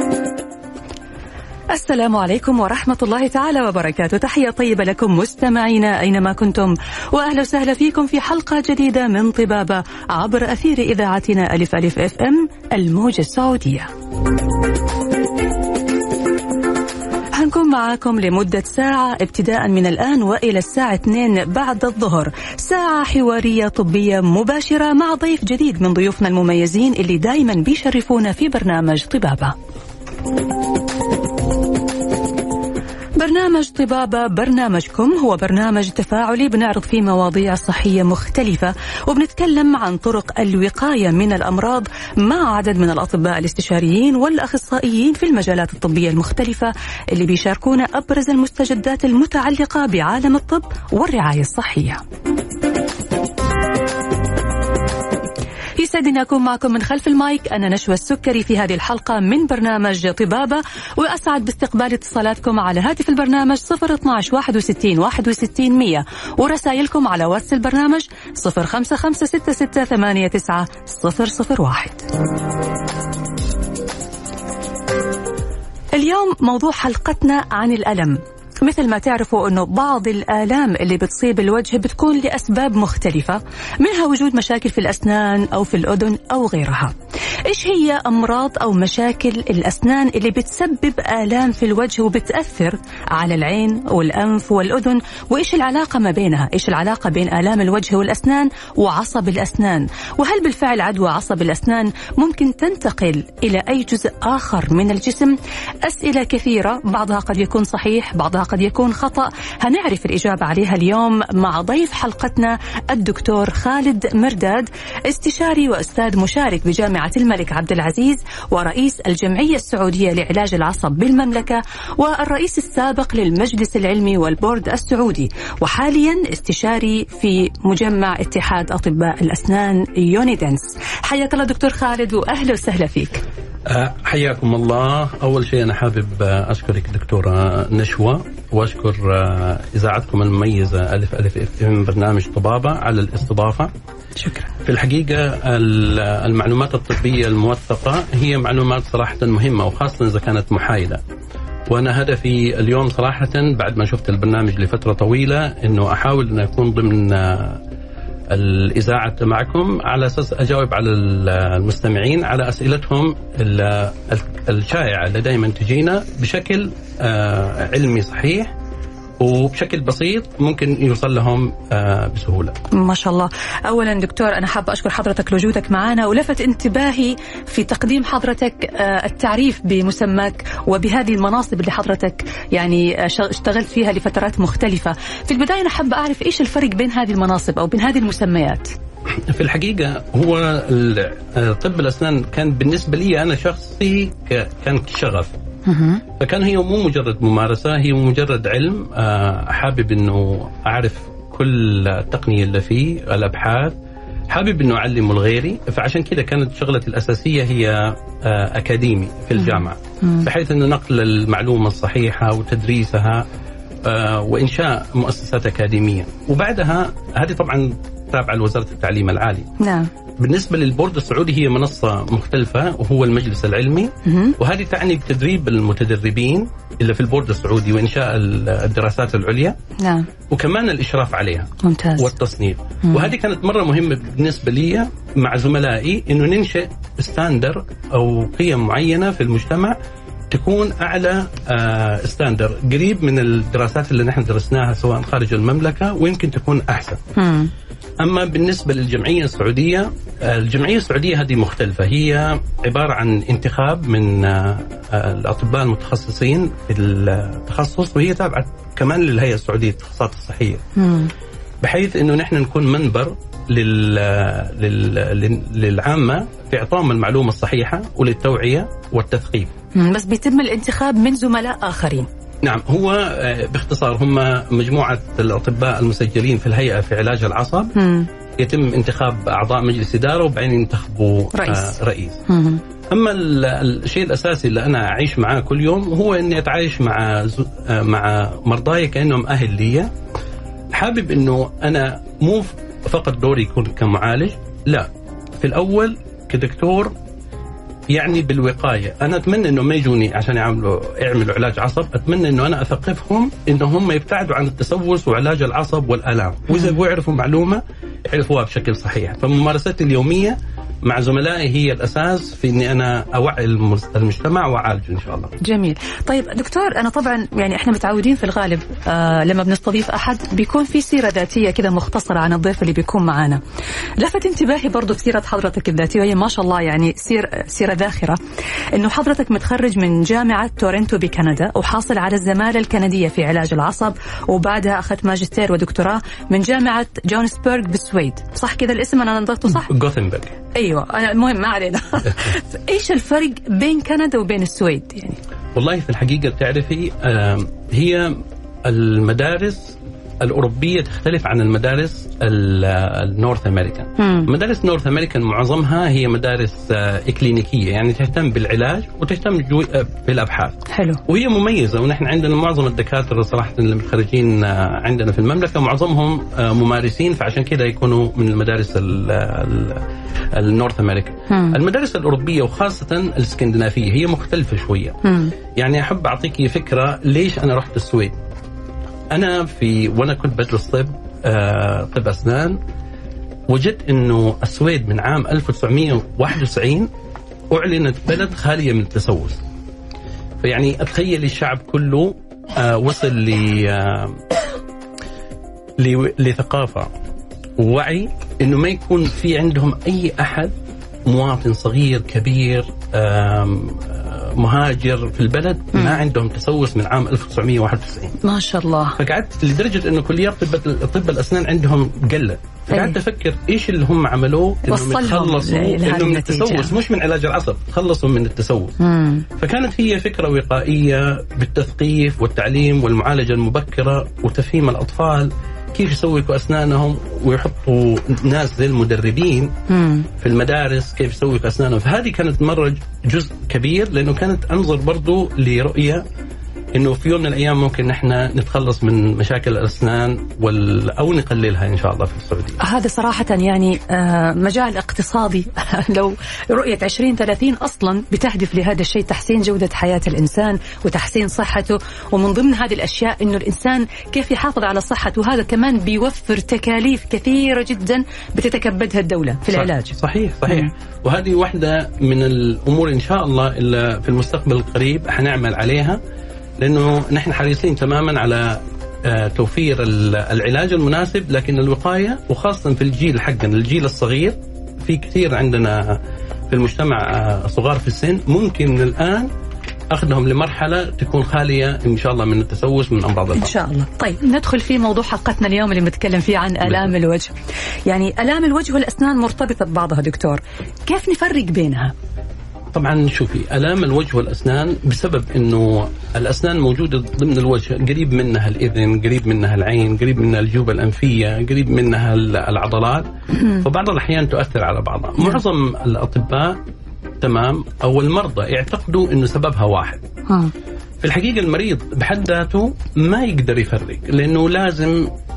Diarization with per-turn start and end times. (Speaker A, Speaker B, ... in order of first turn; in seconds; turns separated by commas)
Speaker A: 1.7-13.9, Speaker A: 17.3-29.6, Speaker A: 33.2-52.0, Speaker A: 55.8-72.1, Speaker A: 75.9-86.9, Speaker A: 87.5-133.2, Speaker B: 133.7-143.7, Speaker A: 144.2-144.5, Speaker B: 144.6-151.0, Speaker B: 151.7-157.6, Speaker B: 158.3-168.5, Speaker B: 169.2-172.6, Speaker A: 172.7-188.8, Speaker B: 189.2-195.3, Speaker A: 195.7-196.0, Speaker B: 196.2-203.8, Speaker B: 204.3-213.2, Speaker A: 209.4-210.2, Speaker B: 213.8-219.5, Speaker A: 219.6-219.9, Speaker B: 220.2-229.6, Speaker A: 224.1-224.4, Speaker A: 229.8-230.1, Speaker B: 230.3-239.8, Speaker A: 231.6-232.1, Speaker B: 240.3-247.0, Speaker A: 247.2-247.5, Speaker B: 248.0-260.6, Speaker A: 260.8-261.1, Speaker B: 261.6-269.5, Speaker A: 269.8-272.1, Speaker B: 272.4-277.8, Speaker A: 277.8-278.1, Speaker B: 278.4-282.2, Speaker A: 281.3-281.8, Speaker A: 282.3-282.6, Speaker B: 282.9-289.9, Speaker B: 290.7-294.9, Speaker B: 295.4-296.9, Speaker B: 297.9-315.3, Speaker A: 315.4-323.4, Speaker A: 324.0-328.2, Speaker A: 328.7-339.7, Speaker B: 339.7-340.4, Speaker A: 340.5-345.2, Speaker B: 345.6-375.0, Speaker A: 354.0-354.3, Speaker A: 360.7-361.0, Speaker A: 371.3-371.5, Speaker A: 375.1-375.3, Speaker B: 375.6-378.2, Speaker B: 379.1-382.6, Speaker B: 383.5-386.9, Speaker B: 387.5-389.4, Speaker B: 390.4-394.2, Speaker B: 395.8-396.9, Speaker B: 397.6-400.5, Speaker B: 401.1-408.2, Speaker A: 408.2-409.0, Speaker B: 409.0-418.8, Speaker A: 412.7-413.0, Speaker A: 414.6-416.7, Speaker A: 418.8-419.2, Speaker B: 419.4-429.6, Speaker A: 429.7-430.1, Speaker B: 430.2-436.1, Speaker B: 436.8-442.6, Speaker A: 442.6-460.0, Speaker B: 459.5-466.0, Speaker B: 466.6-479.3, Speaker B: 479.9-483.5, Speaker A: 483.4-487.4, Speaker A: 487.9-491.9, Speaker B: 492.7-506.6, Speaker B: 507.2-510.1, Speaker B: 511.0-515.1